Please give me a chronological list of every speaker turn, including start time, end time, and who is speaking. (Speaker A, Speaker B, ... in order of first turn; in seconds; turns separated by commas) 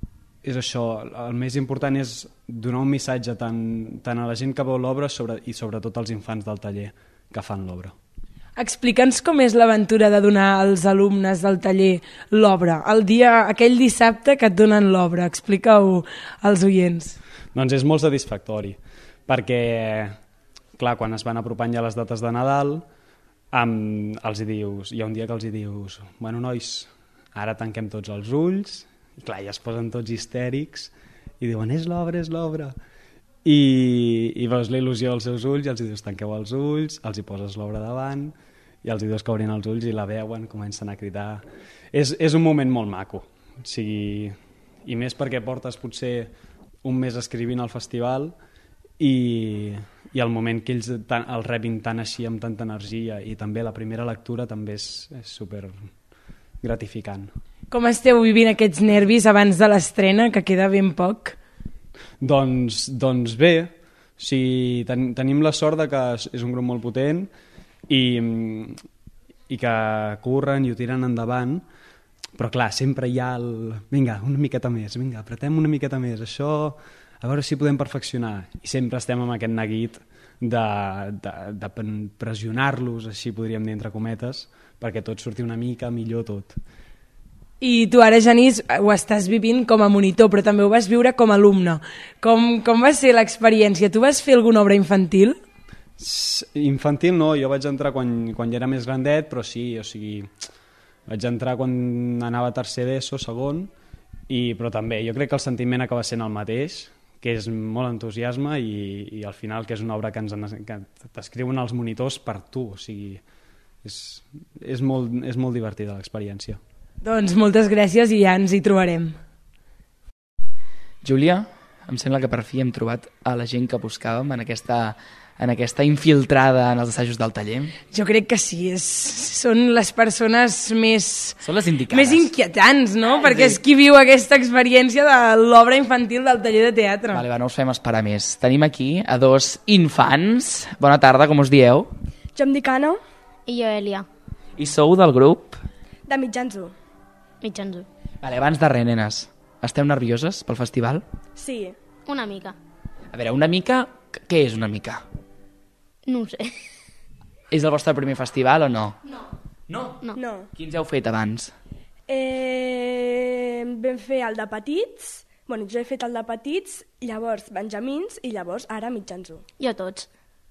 Speaker A: 0.4-8.0, Speaker B: 8.6-17.2, Speaker A: 17.5-20.2, Speaker A: 20.8-22.8, Speaker A: 23.5-32.8, Speaker A: 33.5-46.3, Speaker A: 46.8-48.4, Speaker A: 49.0-55.9, Speaker A: 56.6-57.3, Speaker B: 57.7-61.4, Speaker A: 62.2-67.3, Speaker A: 67.9-68.8, Speaker A: 69.5-71.6, Speaker A: 72.3-86.6, Speaker B: 87.6-95.4, Speaker A: 96.0-100.3, Speaker A: 101.1-103.7, Speaker A: 104.3-113.2, Speaker A: 113.8-116.6, Speaker B: 117.0-119.2, Speaker C: 121.0-127.7, Speaker B: 127.9-131.4, Speaker C: 131.4-132.3, Speaker B: 131.9-137.2, Speaker C: 133.1-133.6, Speaker C: 137.1-141.9, Speaker D: 142.3-143.0, Speaker E: 143.5-144.1, Speaker C: 144.6-145.6, Speaker D: 146.1-146.7, Speaker E: 147.4-147.9, Speaker C: 148.2-151.0, Speaker D: 151.4-151.8, Speaker E: 152.1-152.6, Speaker C: 153.1-155.0, Speaker E: 156.1-156.6, Speaker C: 157.5-159.0, Speaker C: 159.7-160.0, Speaker D: 160.2-160.5, Speaker C: 160.6-161.5, Speaker D: 162.1-169.4, Speaker E: 169.6-170.1